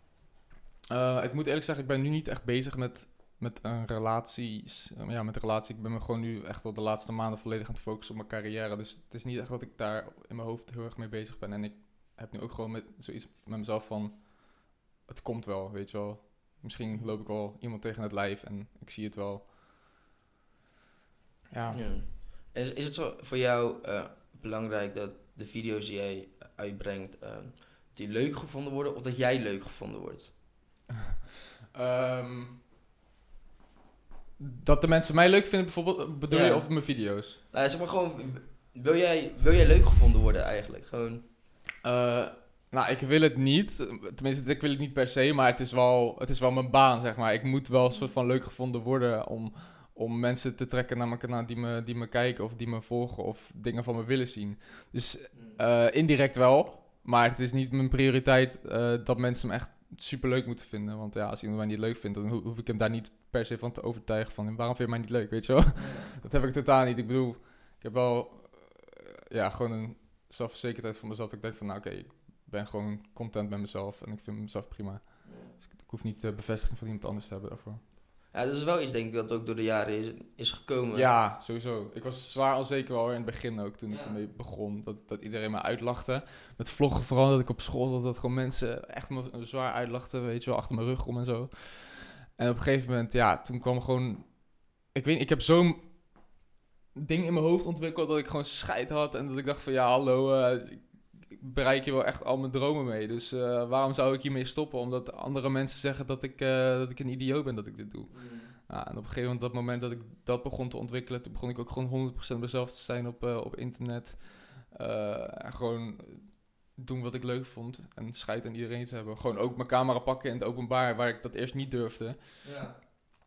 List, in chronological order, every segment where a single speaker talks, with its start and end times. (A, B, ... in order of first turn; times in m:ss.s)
0:00.9-0:19.5 A
0:21.5-0:21.9 A
0:21.7-0:30.3 B
0:31.7-0:32.6 A
0:34.4-0:37.4 A
0:36.3-0:41.2 B
0:41.8-1:17.8 A
0:47.9-0:48.1 B
0:55.3-0:55.6 B
1:05.8-1:06.1 B
1:15.2-1:15.5 B
1:18.3-1:21.1 B
1:20.9-1:36.4 A
1:23.9-1:24.2 B
1:36.9-2:02.8 A
1:48.1-1:48.5 B
2:02.4-2:02.8 B